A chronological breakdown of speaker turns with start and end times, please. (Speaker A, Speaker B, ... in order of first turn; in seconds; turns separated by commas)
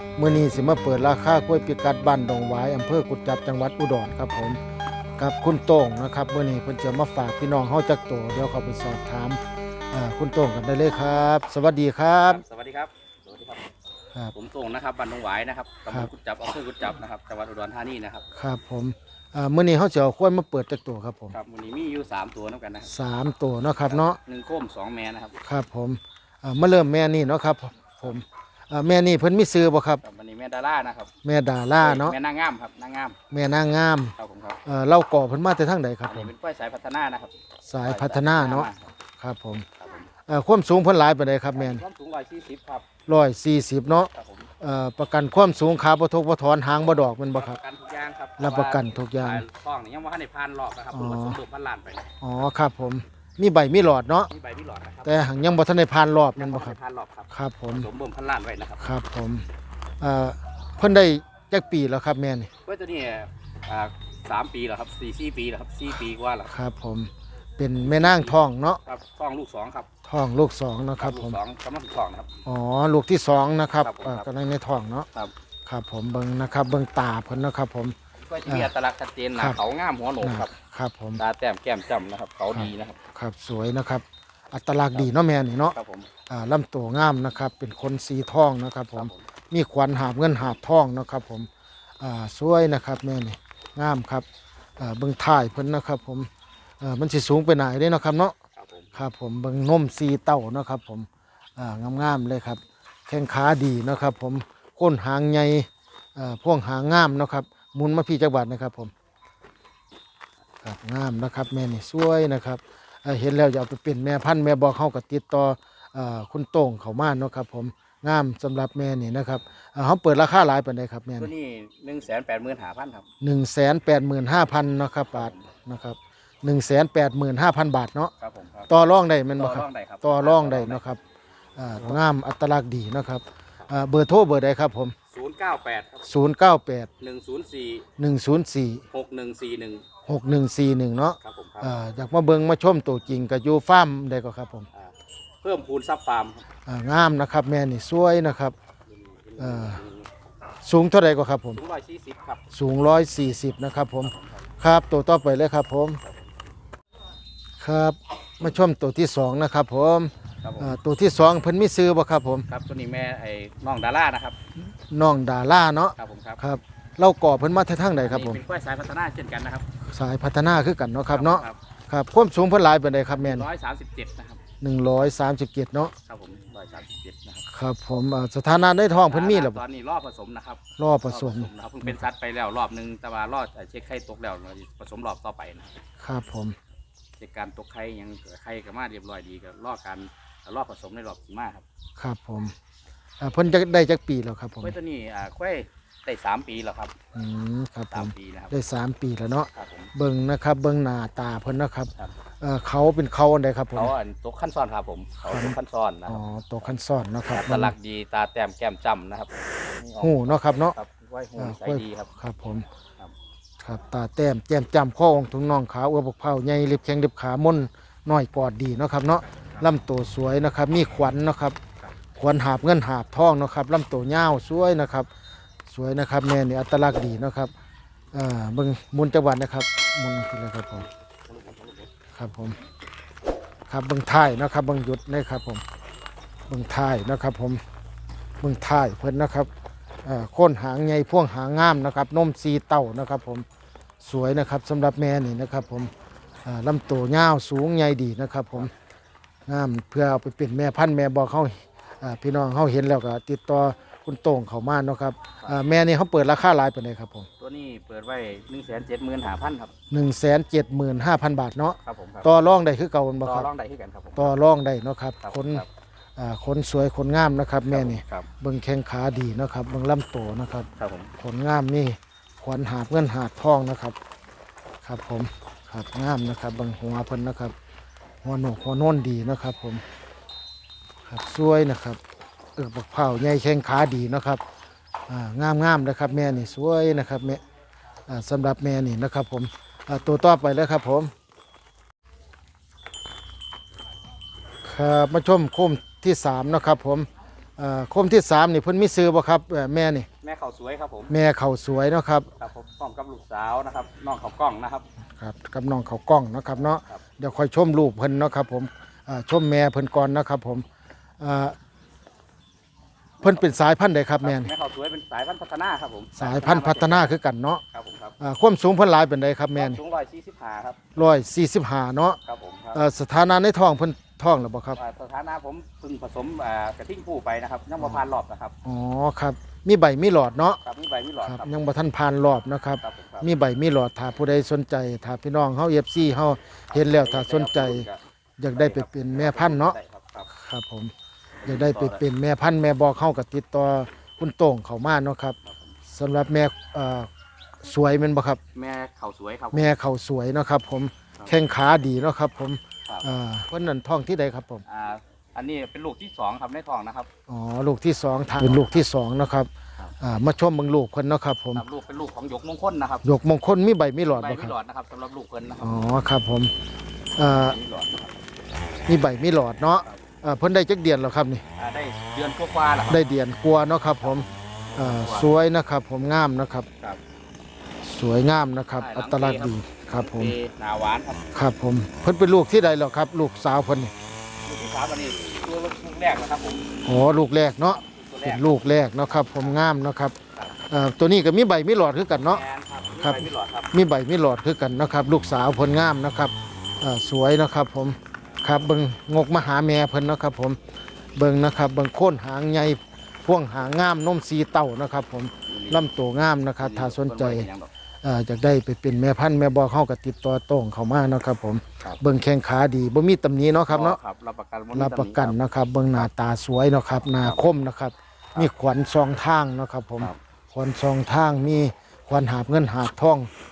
Speaker A: 0.2-4.6, Speaker A: 5.2-9.4, Speaker A: 9.9-12.4, Speaker B: 12.3-13.7, Speaker B: 14.3-18.3, Speaker A: 18.4-21.4, Speaker B: 21.3-22.9, Speaker A: 22.9-24.2, Speaker B: 23.9-25.4, Speaker A: 25.4-30.0, Speaker B: 30.0-31.1, Speaker A: 31.2-32.1, Speaker B: 31.8-33.2, Speaker A: 33.3-36.3, Speaker B: 34.2-34.6, Speaker B: 36.1-38.9, Speaker A: 37.7-39.7, Speaker B: 39.8-40.1, Speaker A: 40.3-41.8, Speaker B: 41.5-42.9, Speaker A: 43.1-47.6, Speaker B: 44.1-44.5, Speaker B: 47.3-52.1, Speaker A: 48.4-49.5, Speaker A: 50.9-51.4, Speaker A: 52.2-54.3, Speaker B: 54.3-55.6, Speaker A: 55.0-56.8, Speaker B: 56.4-58.9, Speaker A: 57.3-57.9, Speaker A: 58.8-59.5, Speaker A: 60.0-62.5, Speaker B: 62.6-66.5, Speaker A: 66.5-68.8, Speaker B: 67.8-69.9, Speaker A: 70.1-71.4, Speaker B: 71.0-72.3, Speaker A: 72.5-75.1, Speaker B: 73.8-74.3, Speaker A: 75.7-78.0, Speaker B: 78.2-80.5, Speaker A: 78.5-78.7, Speaker A: 80.2-81.2, Speaker B: 81.2-83.0, Speaker A: 82.5-85.8, Speaker B: 85.7-86.1, Speaker A: 86.3-91.5, Speaker B: 89.0-89.2, Speaker A: 92.0-94.3, Speaker A: 94.8-96.3, Speaker A: 96.8-98.3, Speaker B: 98.6-99.0, Speaker A: 99.0-108.9, Speaker A: 110.6-121.3, Speaker B: 121.2-123.1, Speaker A: 123.2-128.1, Speaker B: 125.1-125.4, Speaker B: 128.2-128.8, Speaker A: 128.7-131.0, Speaker B: 129.3-130.8, Speaker A: 131.6-134.9, Speaker B: 135.1-136.1, Speaker A: 136.0-136.9, Speaker B: 137.0-137.9, Speaker A: 138.0-138.8, Speaker B: 138.9-139.9, Speaker A: 140.1-144.7, Speaker B: 141.2-141.8, Speaker B: 144.7-146.4, Speaker A: 146.7-148.6, Speaker B: 148.9-150.1, Speaker A: 149.4-149.8, Speaker A: 150.6-151.6, Speaker B: 151.5-152.4, Speaker A: 152.5-156.0, Speaker B: 154.0-154.5, Speaker A: 157.6-162.5, Speaker B: 160.4-160.8, Speaker B: 162.5-164.4, Speaker A: 164.8-168.4, Speaker B: 166.0-166.4, Speaker B: 168.0-169.7, Speaker A: 169.9-173.5, Speaker B: 171.1-171.6, Speaker B: 173.1-174.4, Speaker A: 174.6-175.9, Speaker B: 176.1-177.4, Speaker A: 177.5-179.6, Speaker B: 179.1-185.7, Speaker A: 180.8-182.0, Speaker A: 186.0-186.6, Speaker B: 187.2-191.6, Speaker A: 192.0-192.5, Speaker A: 193.2-194.8, Speaker B: 194.6-196.9, Speaker A: 197.2-203.9, Speaker B: 197.9-198.6, Speaker B: 199.5-199.9, Speaker B: 203.7-206.2, Speaker A: 205.3-207.7, Speaker B: 207.3-212.1, Speaker A: 210.0-210.8, Speaker A: 211.4-212.7, Speaker A: 213.6-221.6, Speaker A: 222.2-225.1, Speaker A: 225.7-227.5, Speaker A: 228.1-230.9, Speaker B: 231.3-231.9, Speaker A: 232.2-232.6, Speaker A: 233.7-235.6, Speaker A: 236.5-237.6, Speaker A: 238.4-239.5, Speaker A: 240.1-243.5, Speaker A: 244.0-245.9, Speaker A: 246.4-248.7, Speaker A: 249.5-257.3, Speaker B: 257.4-259.7, Speaker A: 259.9-263.5, Speaker B: 261.8-262.3, Speaker B: 263.2-264.4, Speaker A: 264.2-265.6, Speaker B: 265.2-265.7, Speaker A: 266.2-270.7, Speaker B: 267.7-268.3, Speaker B: 270.8-271.1, Speaker A: 271.2-274.0, Speaker A: 274.8-277.6, Speaker A: 278.2-279.8, Speaker A: 281.1-282.0, Speaker A: 282.6-284.4, Speaker A: 285.1-287.4, Speaker A: 288.1-291.1, Speaker A: 294.6-300.1, Speaker B: 300.2-301.1, Speaker A: 301.1-302.3, Speaker B: 302.4-304.9, Speaker A: 305.2-310.7, Speaker B: 306.6-307.0, Speaker A: 311.2-311.6, Speaker A: 313.2-314.5, Speaker B: 314.2-317.1, Speaker A: 316.2-317.6, Speaker B: 317.7-318.2, Speaker A: 318.2-319.8, Speaker B: 319.6-320.9, Speaker A: 320.9-322.2, Speaker B: 322.2-322.8, Speaker A: 322.7-324.8, Speaker B: 324.8-328.6, Speaker A: 328.6-330.6, Speaker B: 330.6-331.6, Speaker A: 331.2-337.9, Speaker B: 332.8-333.3, Speaker B: 336.7-338.0, Speaker A: 338.4-339.8, Speaker B: 338.5-340.3, Speaker A: 340.3-340.9, Speaker B: 341.4-342.1, Speaker A: 341.5-345.4, Speaker B: 345.4-345.8, Speaker A: 345.9-347.1, Speaker A: 347.6-348.4, Speaker B: 348.5-349.7, Speaker A: 349.5-354.6, Speaker B: 354.7-357.1, Speaker A: 357.3-361.6, Speaker B: 358.4-358.8, Speaker B: 361.5-363.1, Speaker A: 363.0-364.5, Speaker B: 364.1-365.8, Speaker A: 365.6-366.5, Speaker A: 367.2-367.6, Speaker B: 367.2-368.1, Speaker A: 368.9-371.4, Speaker B: 371.6-373.0, Speaker A: 372.9-376.7, Speaker B: 374.0-375.4, Speaker A: 377.8-380.3, Speaker B: 378.8-381.4, Speaker A: 381.3-383.9, Speaker B: 384.4-386.7, Speaker A: 386.8-390.2, Speaker B: 387.6-388.5, Speaker A: 390.7-392.4, Speaker B: 392.2-393.7, Speaker A: 393.0-400.6, Speaker A: 401.2-407.5, Speaker B: 405.5-405.9, Speaker B: 406.6-407.7, Speaker A: 408.0-414.0, Speaker B: 413.7-415.4, Speaker A: 414.7-423.3